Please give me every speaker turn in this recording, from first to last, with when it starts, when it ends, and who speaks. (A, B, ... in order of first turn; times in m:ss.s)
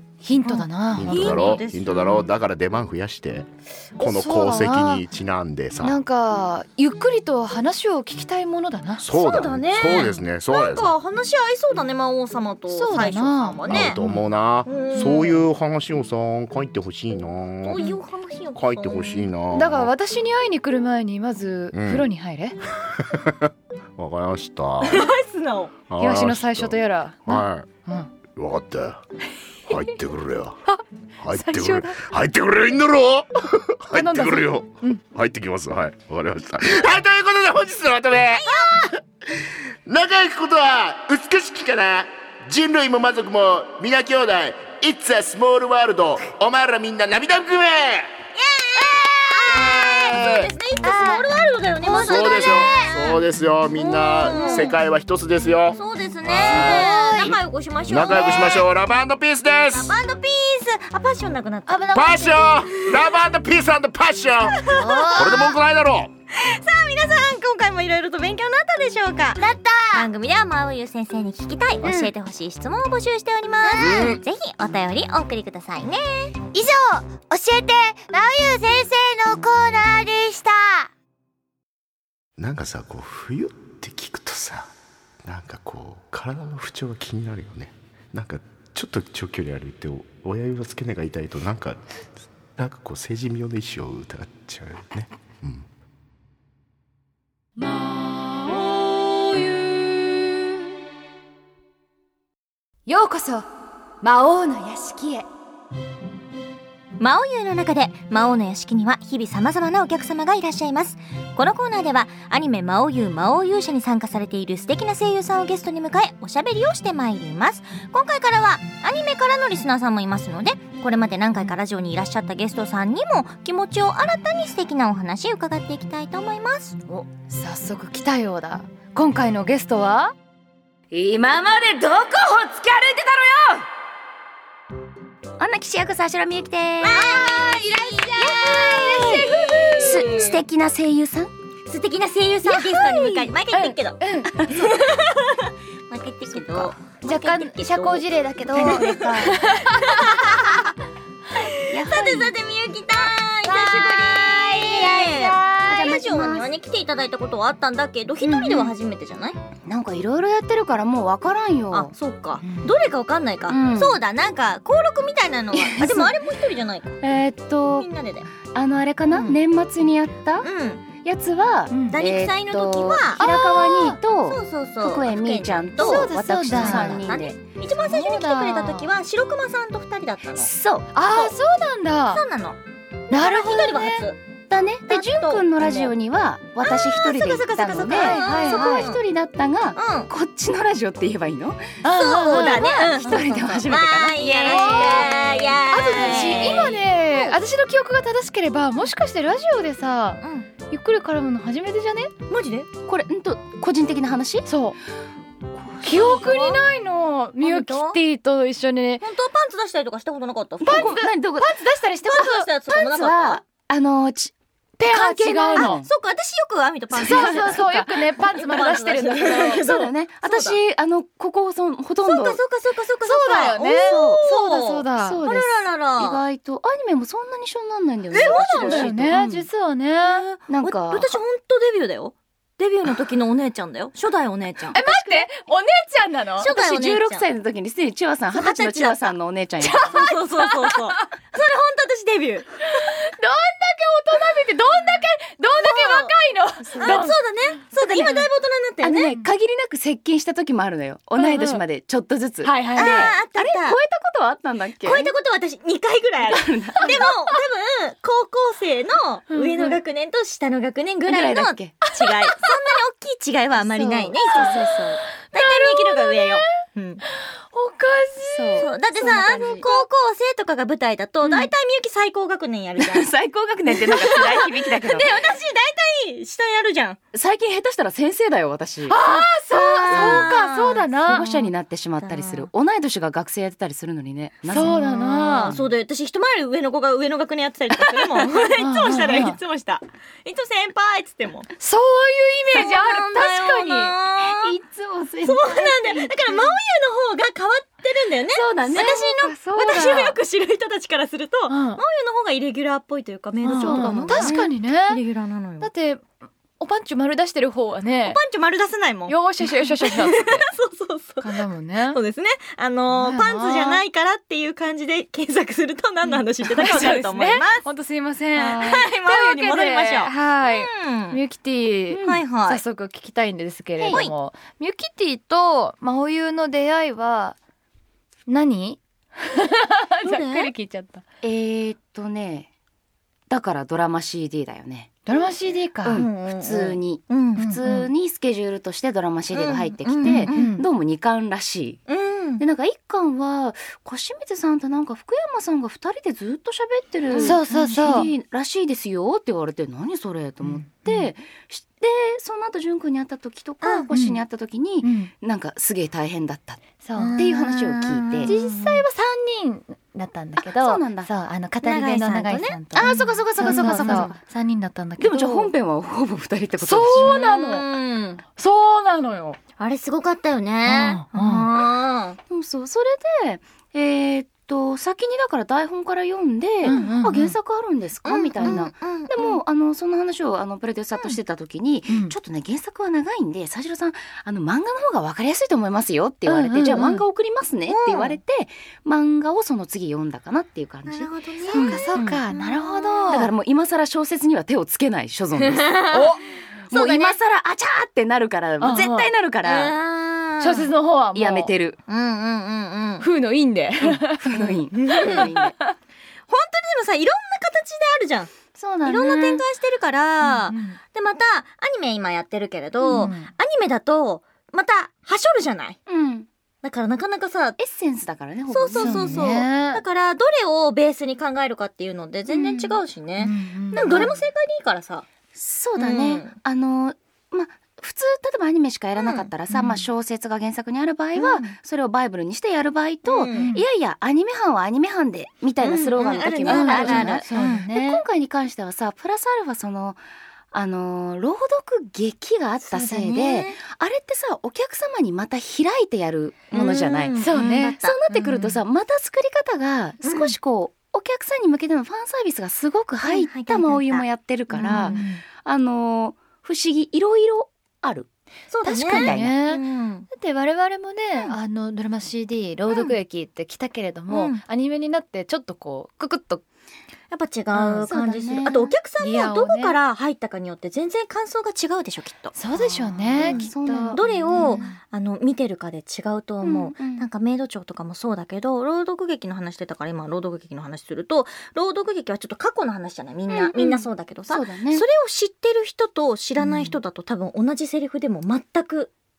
0:00.2-0:01.4 A
0:00.4-0:02.3 B
0:00.9-0:06.0 C
0:04.0-0:05.0 A
0:05.8-0:09.0 A
0:09.0-0:10.9 C
0:09.1-0:14.0 B
0:12.7-0:14.2 A
0:13.7-0:17.9 C
0:14.6-0:15.4 B
0:17.6-0:19.3 B
0:18.5-0:19.9 C
0:19.5-0:22.6 A
0:21.7-0:22.0 C
0:22.9-0:25.1 C
0:24.8-0:25.7 B
0:25.9-0:27.7 C
0:26.0-0:28.1 A
0:28.3-0:29.0 C
0:29.7-0:30.6 C
0:31.2-0:48.1 C
0:31.3-0:32.0 A
0:33.9-0:35.0 A
0:38.4-0:38.7 B
0:48.3-0:53.2 B
0:49.5-0:50.5 C
0:50.8-0:51.2 A
0:51.8-0:52.7 A
0:51.9-0:57.3 C
0:53.8-0:54.7 B
0:54.3-0:54.7 A
0:55.7-0:58.7 B
0:56.6-0:57.3 A
0:57.9-1:00.0 C
0:59.7-1:02.0 B
1:01.7-1:02.5 A
1:01.9-1:06.1 C
1:02.7-1:03.1 B
1:04.5-1:05.6 B
1:04.7-1:05.3 A
1:06.3-1:16.4 B
1:09.4-1:10.0 A
1:09.5-1:10.0 D
1:11.8-1:12.1 A
1:13.8-1:14.2 C
1:16.5-1:20.9 D
1:16.5-1:18.8 A
1:22.4-1:24.7 C
1:25.2-1:32.0 C
1:32.6-1:35.6 C
1:37.6-1:40.2 A
1:42.9-1:43.5 A
1:44.0-1:45.2 A
1:47.0-2:06.8 B
2:06.9-2:10.1 A
2:10.9-2:13.6 E
2:15.4-2:17.2 E
2:16.8-2:20.4 B
2:16.9-2:20.0 A
2:18.4-2:21.3 E
2:21.6-2:30.6 B
2:22.4-2:24.5 A
2:24.3-2:24.8 E
2:26.3-2:26.7 E
2:27.0-2:30.4 A
2:28.5-2:29.3 E
2:31.4-2:39.4 B
2:31.7-2:32.3 E
2:33.5-2:35.7 A
2:35.6-2:36.4 E
2:38.2-2:38.7 E
2:39.6-2:41.9 E
2:41.7-2:47.0 B
2:43.5-2:44.0 E
2:45.5-2:46.2 E
2:47.0-2:47.9 E
2:47.8-2:48.3 B
2:48.4-2:57.4 E
2:49.1-2:49.4 B
2:50.4-2:50.9 B
2:51.7-2:52.0 A
2:51.9-3:00.5 B
2:53.2-2:54.0 A
2:55.8-2:57.1 A
2:57.8-2:58.9 A
3:00.4-3:00.9 E
3:00.9-3:02.2 A
3:02.1-3:02.6 B
3:03.1-3:04.1 A
3:03.1-3:04.2 B
3:04.5-3:11.7 E
3:04.9-3:05.9 B
3:06.6-3:09.0 B
3:07.8-3:08.9 A
3:09.8-3:10.1 B
3:11.8-3:13.3 A
3:11.9-3:17.3 B
3:12.3-3:16.7 E
3:14.4-3:22.1 A
3:20.2-3:20.5 B
3:22.3-3:22.7 B
3:22.8-3:24.5 E
3:24.4-3:24.8 A
3:25.8-3:26.6 B
3:25.8-3:29.0 A
3:27.4-3:28.0 B
3:29.0-3:31.0 B
3:30.6-3:31.6 E
3:30.6-3:32.5 A
3:32.1-3:33.4 B
3:32.7-3:35.9 E
3:34.8-3:35.8 A
3:35.6-3:40.6 B
3:37.0-3:37.8 E
3:37.0-3:39.6 A
3:39.3-3:42.4 E
3:42.0-3:46.2 B
3:43.0-3:45.2 A
3:43.8-3:44.2 E
3:45.0-3:49.5 E
3:48.1-3:49.1 B
3:48.2-3:50.2 A
3:50.0-3:54.8 B
3:50.5-3:51.2 E
3:54.7-3:56.5 A
3:56.4-3:57.2 B
3:56.4-3:59.9 E
3:58.3-3:59.1 B
3:59.6-4:01.1 A
3:59.9-4:02.8 B
4:02.8-4:07.2 A
4:05.5-4:06.1 B
4:06.7-4:07.0 E
4:06.8-4:09.1 B
4:07.7-4:08.3 E
4:08.8-4:15.1 E
4:11.2-4:11.6 A
4:12.4-4:13.1 A
4:12.7-4:13.8 B
4:14.8-4:24.8 B
4:16.2-4:17.1 E
4:19.3-4:19.8 A
4:21.0-4:21.8 E
4:22.0-4:22.3 A
4:23.6-4:25.0 E
4:24.4-4:24.6 A
4:25.3-4:27.0 B
4:25.3-4:26.4 A
4:27.5-4:29.8 A
4:28.3-4:29.8 E
4:28.6-4:33.1 B
4:32.8-4:35.1 E
4:33.8-4:37.0 B
4:37.1-4:39.0 E
4:38.9-4:41.3 A
4:39.6-4:41.5 B
4:39.9-4:40.3 E
4:41.0-4:45.6 E
4:42.0-4:42.5 B
4:44.5-4:45.5 A
4:44.6-4:51.5 B
4:48.2-4:49.4 A
4:51.6-4:53.9 A
4:52.5-4:54.5 B
4:54.2-4:56.4 E
4:55.2-5:05.7 B
4:58.3-4:59.0 E
4:58.7-5:00.2 A
5:01.5-5:01.8 A
5:03.4-5:05.0 A
5:03.5-5:04.5 E
5:05.6-5:06.0 A
5:06.6-5:08.2 A
5:08.0-5:17.6 B
5:09.1-5:10.4 A
5:11.2-5:12.0 A
5:12.9-5:13.8 A
5:16.0-5:27.4 A
5:18.4-5:21.2 B
5:21.9-5:22.2 E
5:22.0-5:22.6 B
5:23.8-5:24.0 E
5:28.3-5:31.0 A
5:30.0-5:30.5 B
5:31.2-5:32.5 E
5:33.3-5:35.0 E
5:35.0-5:36.0 A
5:35.8-5:41.8 E
5:35.9-5:37.9 B
5:39.3-5:40.5 B
5:40.0-5:40.6 A
5:41.9-5:42.4 B
5:42.4-5:56.6 E
5:47.1-5:47.4 B
5:47.2-5:48.1 A
5:50.4-5:51.1 A
5:53.6-5:53.9 B
5:53.9-5:54.2 A
5:54.8-5:55.1 A
5:56.8-5:57.2 A
5:57.0-5:58.8 B
5:57.2-5:58.4 E
5:58.2-6:05.5 A
6:00.4-6:01.1 E
6:01.6-6:04.2 B
6:02.7-6:04.2 E
6:05.0-6:07.3 E
6:06.6-6:07.7 A
6:06.9-6:08.2 B
6:08.4-6:09.4 A
6:09.6-6:12.2 B
6:10.6-6:11.5 A
6:12.3-6:32.3 E
6:16.6-6:16.9 B
6:16.6-6:17.3 A
6:18.0-6:19.4 B
6:21.9-6:22.1 A
6:26.2-6:27.0 A
6:27.7-6:28.2 B
6:30.8-6:33.1 B
6:31.5-6:33.3 A
6:33.0-6:39.8 E
6:35.4-6:36.2 B
6:35.9-6:36.2 A
6:36.7-6:37.2 B
6:38.6-6:39.1 A
6:39.4-6:40.7 B
6:40.4-6:41.5 A
6:41.1-6:41.8 E
6:41.9-6:43.0 B
6:43.0-6:45.7 A
6:44.2-6:45.5 E
6:44.9-6:45.3 B
6:46.3-6:55.8 B
6:48.5-6:49.4 E
6:50.2-6:50.8 A
6:52.8-6:53.1 E
6:52.8-6:53.3 A
6:55.9-6:56.3 E
6:56.6-6:57.6 B
6:57.6-6:59.3 E
6:58.5-7:05.0 B
6:58.8-6:59.8 A
7:02.3-7:02.8 E
7:03.2-7:04.1 A
7:03.7-7:04.2 E
7:05.3-7:20.0 E
7:05.8-7:06.3 B
7:09.0-7:09.3 B
7:09.5-7:09.8 A
7:11.1-7:11.5 B
7:13.0-7:13.5 B
7:13.3-7:13.6 A
7:15.6-7:17.6 B
7:16.2-7:18.0 A
7:20.5-7:27.2 E
7:22.7-7:23.6 B
7:26.5-7:28.6 B
7:27.2-7:27.8 A
7:27.8-7:38.1 E
7:30.0-7:30.3 B
7:33.0-7:35.2 B
7:34.6-7:35.2 A
7:38.5-7:40.1 B
7:38.6-7:39.4 E
7:38.8-7:46.4 A
7:44.1-7:44.4 B
7:47.1-7:52.3 B
7:47.6-7:47.8 A
7:47.8-7:48.7 E
7:49.0-7:49.8 A
7:52.3-7:54.7 A
7:52.5-7:54.7 E
7:53.2-8:08.9 B
7:56.4-7:57.0 E
8:03.3-8:04.8 E
8:06.4-8:06.8 A